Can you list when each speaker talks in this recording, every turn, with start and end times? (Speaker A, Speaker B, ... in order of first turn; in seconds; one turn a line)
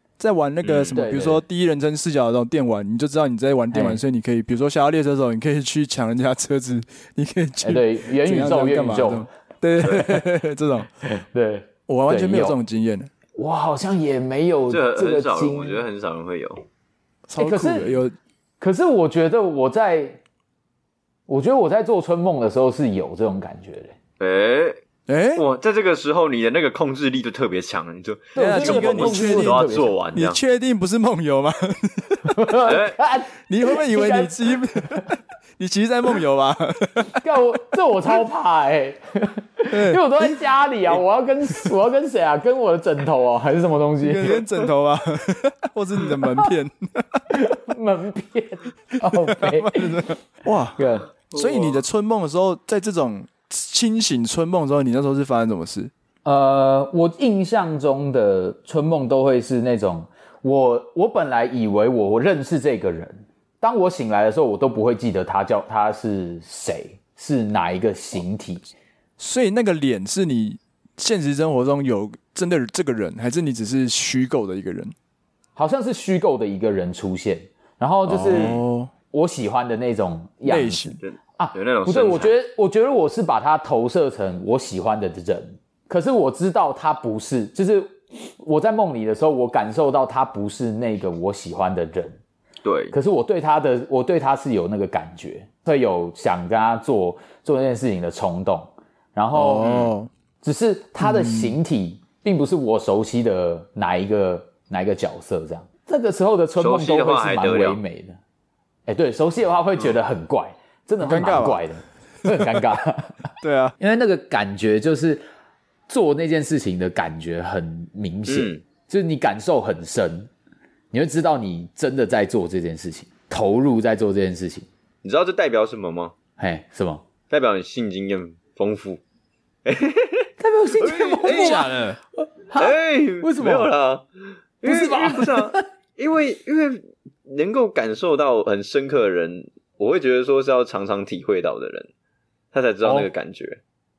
Speaker A: 0.2-10.9
Speaker B: 0.6-1.0
Speaker C: 0.9-1.4
Speaker C: 3.7-4.0
Speaker C: 7.6-9.3
Speaker B: 9.8-10.1
Speaker C: 9.8-10.1
Speaker C: 11.1-12.6
Speaker A: 11.9-13.1
Speaker C: 13.4-15.8
Speaker B: 14.7-16.6
Speaker A: 17.3-18.1
Speaker C: 17.4-18.0
Speaker C: 18.6-20.2
Speaker C: 21.3-24.0
Speaker B: 24.2-24.8
Speaker A: 25.1-25.4
Speaker B: 25.4-30.4
Speaker C: 28.4-30.0
Speaker A: 28.4-32.4
Speaker C: 32.3-35.1
Speaker B: 32.7-33.0
Speaker A: 33.5-37.2
Speaker C: 37.2-44.4
Speaker A: 39.7-40.9
Speaker A: 44.0-47.2
Speaker C: 47.3-50.0
Speaker A: 49.0-55.9
Speaker C: 50.8-51.1
Speaker B: 51.3-51.8
Speaker C: 56.2-68.7
Speaker A: 69.2-75.0
Speaker C: 75.6-78.6
Speaker A: 78.1-78.9
Speaker C: 79.1-92.2
Speaker A: 80.5-81.0
Speaker B: 81.0-82.3
Speaker B: 92.6-92.9
Speaker C: 92.9-99.8
Speaker A: 99.3-100.1
Speaker B: 99.6-99.9
Speaker C: 100.4-108.2
Speaker A: 101.0-101.6
Speaker B: 106.6-107.8
Speaker C: 108.9-115.2
Speaker A: 111.0-111.7
Speaker A: 112.3-112.6
Speaker A: 113.4-113.8
Speaker C: 115.9-120.3
Speaker B: 118.3-118.6
Speaker C: 120.9-124.7
Speaker B: 125.0-126.1
Speaker C: 126.4-127.0
Speaker B: 127.3-129.0
Speaker B: 129.7-131.8
Speaker C: 130.4-131.8
Speaker A: 131.2-132.0
Speaker C: 132.5-133.7
Speaker B: 132.6-134.1
Speaker B: 134.6-141.9
Speaker C: 134.6-135.6
Speaker B: 142.5-143.6
Speaker C: 142.8-143.1